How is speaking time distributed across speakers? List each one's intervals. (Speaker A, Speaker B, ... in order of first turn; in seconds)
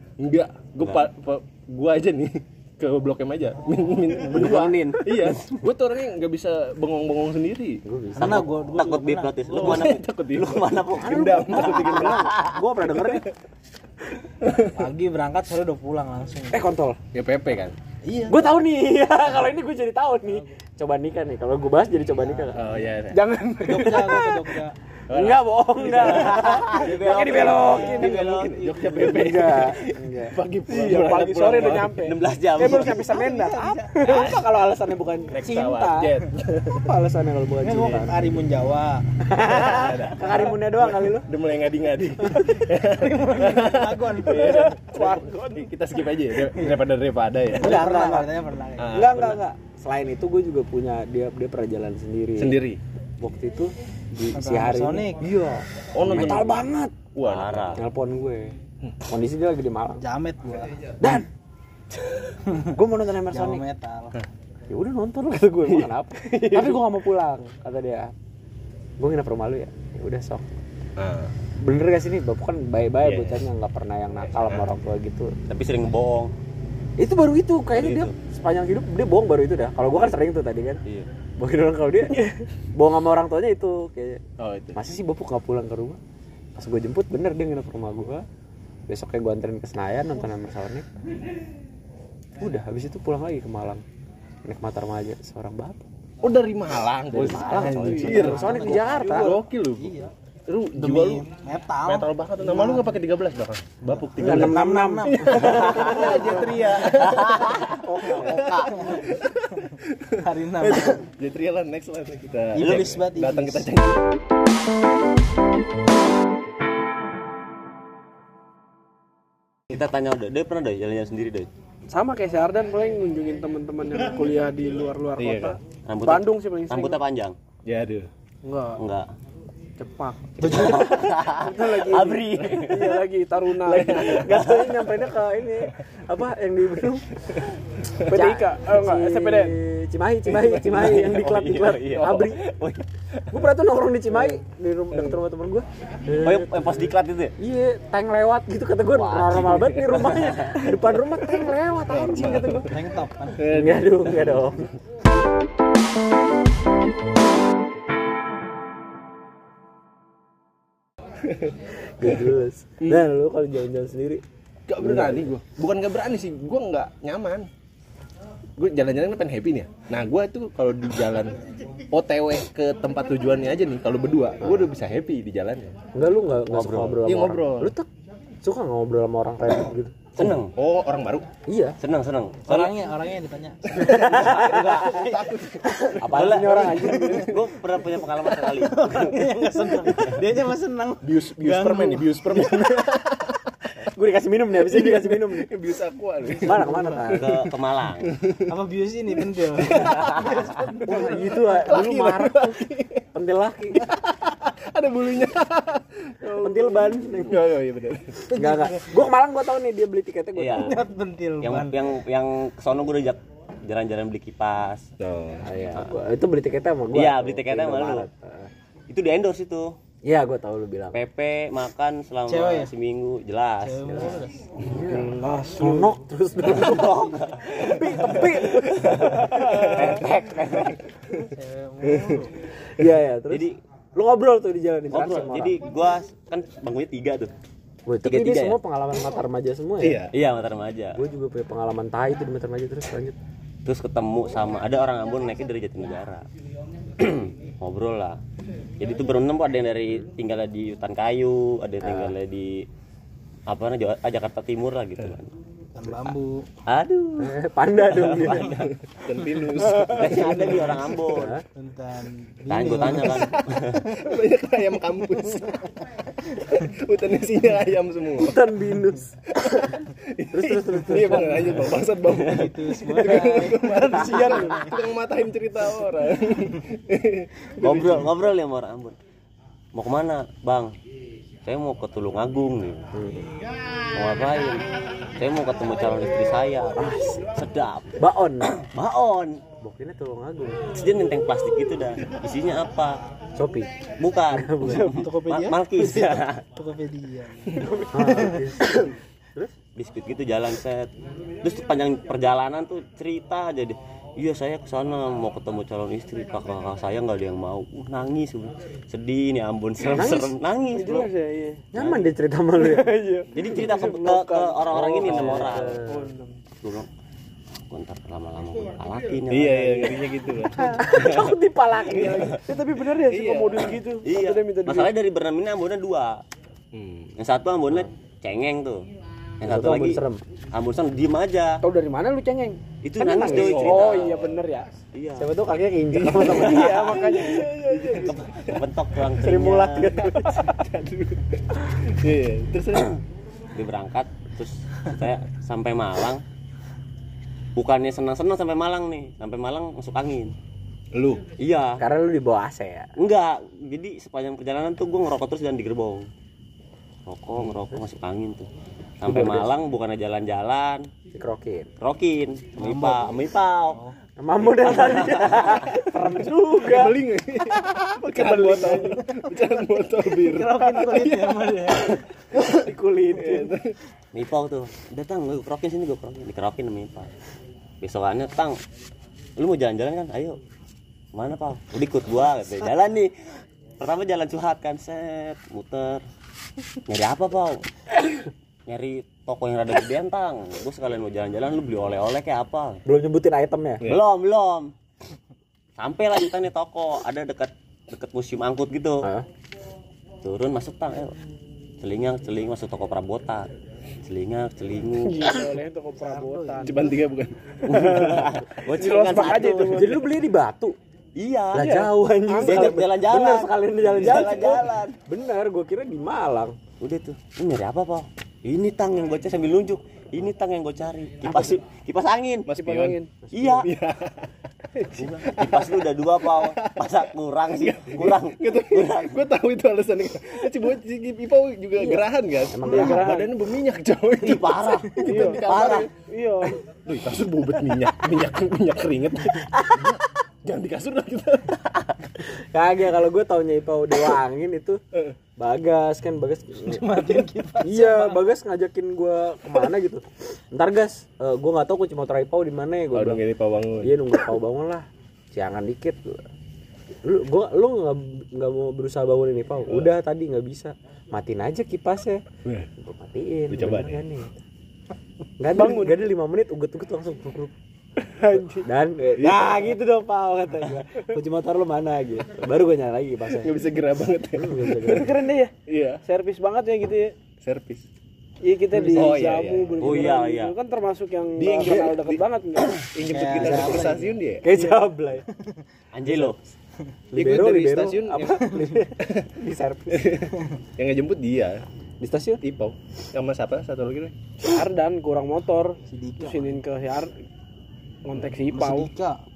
Speaker A: 0.2-7.8, 9.5-12.3, 14.4-14.8, 17.1-17.8, 22.5-23.2, 25.1-26.3, 28.5-32.0, 34.0-34.4, 35.3-36.9, 39.4-47.9, 48.8-49.4, 52.4-52.8, 55.9-56.6, 57.1-57.8, 65.7-66.8, 71.0-71.3, 73.0-73.5, 74.3-74.7, 84.4-84.8, 96.2-101.3, 101.8-114.0, 125.2-125.6, 127.7-128.1, 133.6-134.4, 137.3-138.1, 140.5-141.0, 142.0-142.2, 149.3-150.0, 151.9-152.7, 153.3-154.7, 161.2-163.1, 164.7-167.5, 168.6-171.4, 171.9-175.8, 177.0-177.7, 180.5-181.3, 183.8-187.1, 191.0-193.5, 194.5-197.3, 198.0-198.5, 199.6-203.0, 203.8-208.2, 215.0-215.5, 228.8-229.9, 231.9-232.2, 239.8-240.1, 258.5-260.8, 263.5-268.4, 269.3-278.0, 297.5-297.8, 319.3-321.1, 321.9-322.4, 323.0-323.7, 326.7-327.1, 333.3-334.4, 335.9-336.5, 337.3-338.6, 340.0-342.9, 350.9-351.2, 366.6-373.7, 406.6-408.3, 413.8-414.6, 422.5-423.0, 423.6-424.3, 426.2-435.9, 436.6-441.9, 452.9-454.0, 463.5-464.0, 469.2-469.7, 473.3-475.1, 475.7-476.0, 477.4-477.8, 478.9-479.9, 481.4-482.2, 482.9-484.5, 487.1-489.3, 489.9-491.6, 492.4-494.1
Speaker B: 4.3-5.6, 8.2-12.6, 25.8-28.6, 32.0-33.0, 57.2-57.8, 75.5-76.3, 77.7-78.1, 105.6-106.0, 107.0-108.8, 112.6-113.0, 119.7-121.5, 125.8-127.3, 128.8-129.1, 130.5-133.0, 134.3-134.9, 140.6-142.9, 146.1-147.3, 148.9-150.7, 176.5-177.0, 180.2-180.5, 181.8-182.7, 185.7-189.2, 189.8-190.2, 197.1-198.1, 210.3-210.8, 211.4-214.9, 216.9-218.1, 218.9-219.7, 220.9-224.1, 226.4-230.8, 233.3-233.6, 234.9-237.3, 238.0-238.6, 240.1-241.0, 243.6-246.2, 247.0-248.2, 248.8-252.7, 253.5-255.3, 256.7-257.4, 258.1-258.7, 259.8-261.4, 262.5-263.9, 277.6-278.9, 279.7-280.7, 281.4-282.8, 283.9-284.6, 285.2-289.4, 290.7-293.0, 294.0-296.4, 299.8-300.9, 301.4-311.1, 313.3-315.8, 316.6-316.9, 317.7-320.0, 320.9-321.2, 322.1-322.3, 324.0-326.2, 327.2-328.8, 329.4-330.0, 330.5-331.6, 332.8-334.3, 334.9-335.4, 336.1-337.4, 338.1-340.1, 343.5-346.2, 347.6-350.3, 351.4-351.8, 353.0-356.1, 357.1-358.5, 359.0-360.8, 361.8-363.8, 364.6-365.7, 374.1-377.1, 377.8-378.6, 379.4-380.4, 381.1-383.1, 383.8-386.0, 386.9-387.6, 388.6-392.8, 393.9-394.7, 395.8-399.1, 400.2-401.1, 401.8-403.5, 404.0-405.6, 407.7-410.0, 411.1-414.9, 416.8-422.5, 423.3-423.7, 424.9-429.2, 434.2-435.9, 479.8-480.6, 485.9-486.4
Speaker C: 7.8-8.5, 11.0-13.2, 16.5-17.0, 18.3-22.6, 23.9-24.4, 25.1-30.4, 33.9-36.1, 36.8-38.4, 39.2-41.3, 47.6-48.3, 48.9-52.6, 53.2-56.9, 57.8-58.5, 59.0-60.0, 61.0-61.3, 62.6-63.6, 64.7-68.1, 69.0-70.5, 71.6-75.3, 77.0-80.8, 81.4-82.2, 82.7-84.2, 84.7-86.0, 86.5-88.2, 88.9-90.9, 92.4-93.8, 94.5-95.8, 97.1-99.3, 104.2-106.5, 107.8-108.7, 133.9-137.4, 138.1-142.4, 143.3-152.7, 153.5-154.7, 162.0-164.2, 164.8-165.3, 174.4-174.7, 175.9-177.9, 178.4-180.4, 181.5-181.8, 183.7-184.9, 186.0-187.3, 192.3-192.9, 193.8-195.5, 196.4-197.4, 200.8-202.6, 203.1-203.8, 206.4-207.4, 208.3-210.8, 215.4-218.5, 220.0-221.0, 223.9-229.9, 232.7-235.6, 237.8-240.1, 240.9-243.2, 251.8-252.1, 257.2-258.5, 261.1-261.4, 268.1-269.8, 270.3-271.7, 274.1-274.5, 282.9-283.3, 286.8-287.3, 288.0-288.5, 289.6-290.7, 293.4-293.7, 294.3-294.9, 297.9-298.8, 309.8-310.4, 311.7-312.9, 314.9-316.1, 320.6-322.4, 329.4-330.2, 335.2-337.0, 339.2-340.6, 351.8-352.9, 359.1-359.5, 361.1-361.7, 364.2-367.0, 368.4-368.6, 372.5-373.5, 392.9-393.8, 409.6-410.8, 411.5-416.6, 421.3-421.5, 423.2-423.6, 431.8-433.1, 439.5-440.0, 442.3-444.8, 445.4-446.9, 447.6-453.2, 453.8-456.2, 457.0-462.2, 462.8-464.3, 465.4-467.5, 468.6-473.6, 474.3-475.2, 483.4-483.8, 484.4-485.2, 486.0-486.4, 487.1-490.1, 492.0-492.4
Speaker D: 8.1-9.8, 14.7-16.6, 18.0-18.5, 23.6-24.8, 33.0-34.0, 37.6-39.0, 42.2-44.8, 46.5-46.8, 47.6-49.1, 54.3-55.2, 60.0-60.9, 62.5-62.7, 63.3-64.2, 97.3-99.0, 99.8-100.1, 100.8-103.0, 104.2-105.7, 108.6-111.1, 112.6-113.7, 130.4-131.0, 152.6-153.5, 182.4-185.2, 188.6-192.2, 198.5-201.0, 208.3-208.9, 210.5-211.8, 222.3-222.7, 223.6-224.3, 231.3-232.3, 255.7-256.5, 258.1-258.7, 261.5-263.4, 272.1-274.9, 294.6-298.5, 362.6-363.1, 369.1-369.5, 370.2-372.0, 406.0-406.9, 446.6-448.2, 478.7-479.1, 483.0-484.2, 485.3-485.6, 490.3-490.6, 495.9-496.6, 498.5-499.2
Speaker E: 23.1-24.4, 26.7-28.5, 30.7-34.4, 44.8-45.7, 82.1-82.4, 97.3-99.4, 121.9-127.0, 128.4-128.8, 129.8-134.1, 138.1-139.6, 224.9-225.9, 274.1-274.5, 310.7-311.7, 312.6-316.4, 322.4-324.9, 331.6-334.7, 336.2-338.1, 339.6-340.0, 368.0-369.0, 405.0-406.9, 407.7-410.0, 412.3-412.8, 422.5-423.1, 424.8-425.6, 432.6-433.3, 435.0-435.5, 436.0-436.6, 465.5-465.9, 468.1-468.6, 474.9-475.5, 476.0-477.1, 478.4-482.9, 494.4-497.1, 498.0-498.9